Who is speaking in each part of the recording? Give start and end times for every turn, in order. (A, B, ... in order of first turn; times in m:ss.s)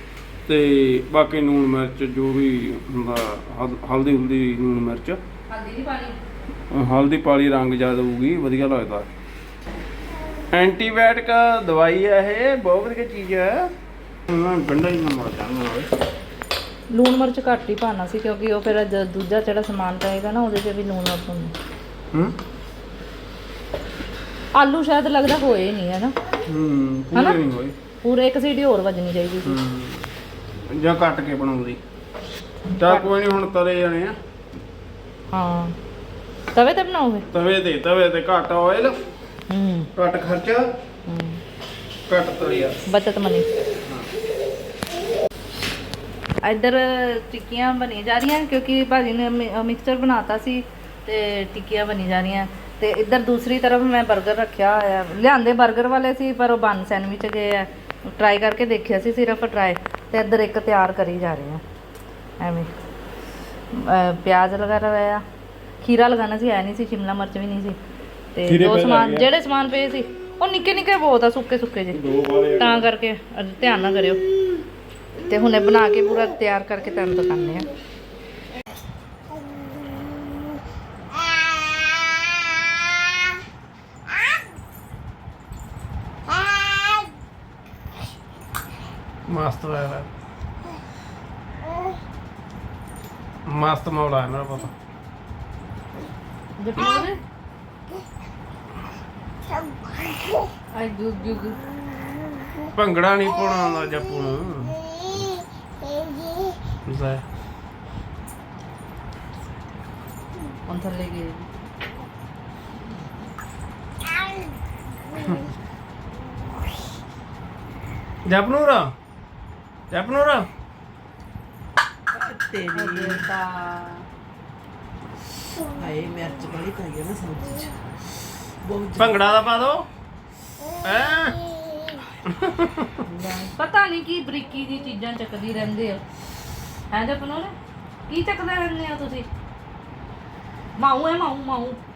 0:00.5-0:05.2 A
0:05.5-0:06.2 B
0:06.7-0:09.1 A
0:10.5-0:13.6 A
0:14.3-0:15.9 A
0:16.9-0:21.5 B
0:24.5-0:26.1 B
0:26.5-0:27.7 A
0:28.0-0:29.6 B
0:29.4-0:30.1 A
0:30.7-0:31.8 A
0:32.8-0:34.1 A
0:32.8-0:33.1 B
0:35.3-0:35.7 B
0:36.5-0:37.2 B
0:37.3-0:39.0 A
0:39.5-0:39.9 B
0:40.0-0:40.7 A
0:41.1-0:41.4 B
0:42.1-0:42.8 A
0:42.9-0:43.5 B
0:46.4-1:01.6 B
1:02.4-1:02.7 B
1:03.7-1:05.2 B
1:05.8-1:07.8 B
1:08.3-1:12.0 B
1:08.4-1:09.3 A
1:11.9-1:12.9 A
1:12.6-1:14.2 B
1:15.3-1:17.7 B
1:29.3-1:30.1 A
1:33.5-1:34.7 A
1:36.6-1:37.2 B
1:40.7-1:41.6 B
1:42.7-1:45.3 A
1:46.8-1:47.2 A
1:50.7-1:51.5 B
1:58.3-1:58.9 A
1:59.9-2:00.5 A
2:02.1-2:03.2 C
2:02.7-2:04.0 B
2:05.6-2:07.8 C
2:08.6-2:09.2 C
2:09.0-2:09.8 A
2:10.8-2:11.4 A
2:12.3-2:12.9 A
2:13.0-2:16.0 B
2:16.9-2:17.5 B
2:18.1-2:19.2 B
2:20.8-2:21.8 B